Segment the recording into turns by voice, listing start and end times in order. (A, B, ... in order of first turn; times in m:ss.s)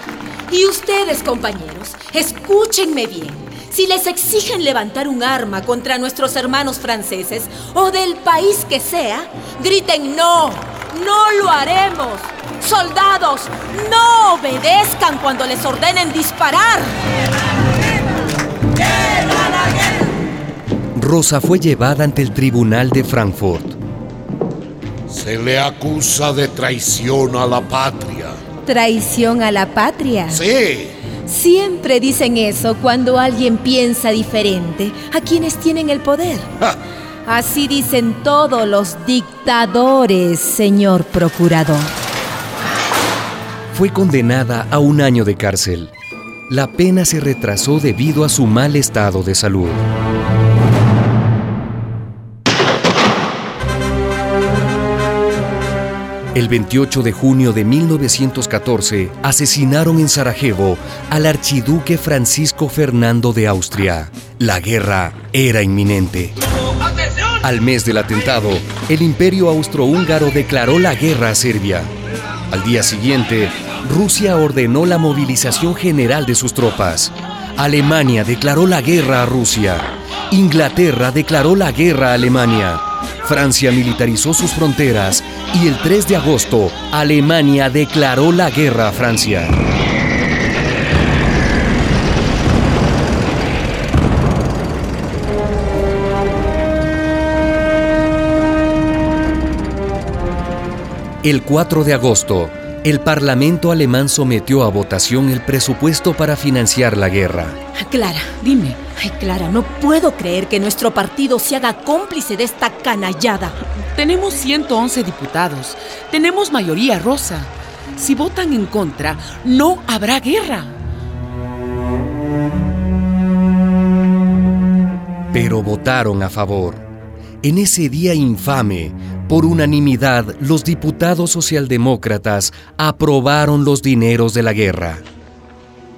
0:00.5-0:16.9 A
0:21.0-0:23.8 B
0:25.1-0:28.4 C
0:28.6-0:30.5 A
0:30.3-0:30.9 C
0:31.3-0:36.5 A
0:37.3-0:41.9 A
0:43.7-0:45.9 B
0:46.5-0:49.8 B
0:56.3-1:06.4 B
1:07.4-1:11.9 B
1:12.5-1:29.6 B
1:41.2-1:47.6 B
1:47.8-1:48.4 A
1:48.4-1:48.8 D
1:49.0-1:53.6 A
1:54.0-2:00.8 D
2:05.3-2:06.8 B
2:07.4-2:15.0 B